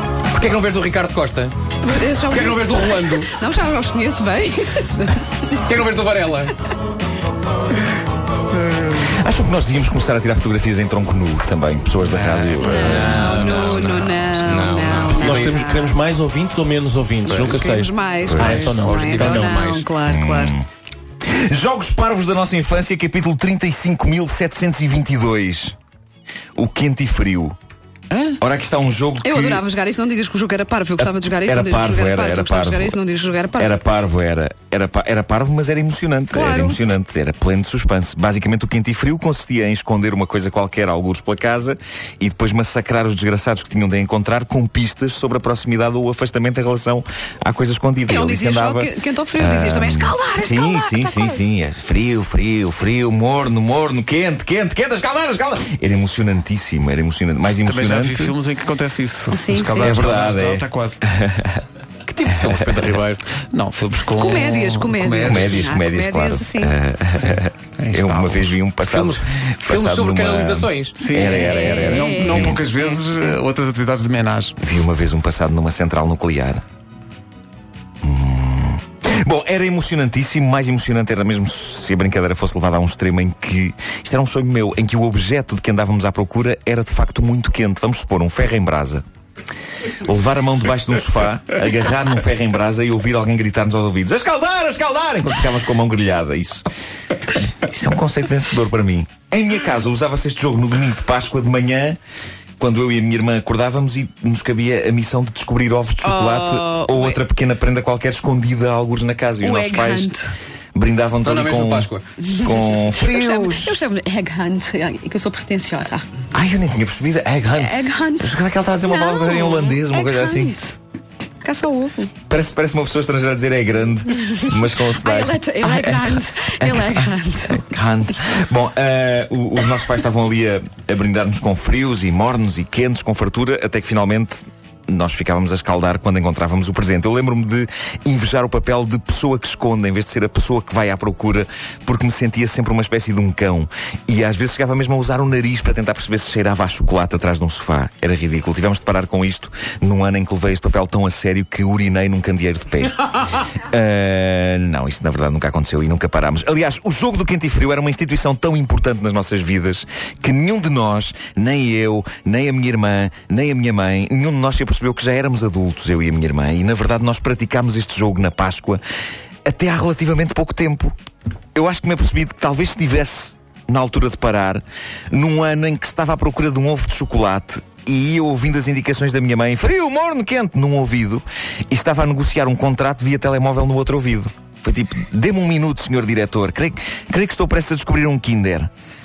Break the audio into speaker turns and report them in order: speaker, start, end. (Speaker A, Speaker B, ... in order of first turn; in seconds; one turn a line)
Speaker A: 0.3-1.5
Speaker B: 1.8-5.4
Speaker A: 2.3-3.3
Speaker A: 5.7-6.5
Speaker C: 8.7-13.5
Speaker A: 12.2-15.5
Speaker B: 12.6-15.9
Speaker D: 15.0-19.6
Speaker B: 17.2-20.6
Speaker A: 17.3-17.7
Speaker C: 18.3-18.6
Speaker A: 18.6-19.9
Speaker C: 20.0-20.7
Speaker C: 21.2-25.7
Speaker C: 26.6-27.6
Speaker C: 28.4-29.6
Speaker B: 29.2-33.7
Speaker C: 31.0-33.0
Speaker C: 33.6-58.4
Speaker B: 36.3-36.8
Speaker B: 48.1-51.5
Speaker E: 57.6-61.0
Speaker B: 59.3-60.0
Speaker C: 59.7-61.6
Speaker A: 62.1-63.2
Speaker C: 62.3-62.9
Speaker E: 63.3-65.7
Speaker B: 64.2-66.7
Speaker C: 65.2-72.6
Speaker E: 67.2-68.6
Speaker A: 68.8-71.6
Speaker E: 70.9-74.6
Speaker B: 71.3-72.7
Speaker C: 74.6-76.6
Speaker C: 78.0-89.0
Speaker C: 90.0-96.7
Speaker C: 97.5-102.0
Speaker C: 102.6-110.1
Speaker B: 106.0-107.2
Speaker B: 109.4-110.3
Speaker C: 110.8-113.8
Speaker A: 111.2-112.1
Speaker B: 112.2-116.1
Speaker C: 116.3-120.5
Speaker B: 117.5-120.8
Speaker B: 121.4-122.1
Speaker C: 122.3-168.8
Speaker B: 124.2-127.7
Speaker C: 169.5-170.9
Speaker C: 171.6-188.7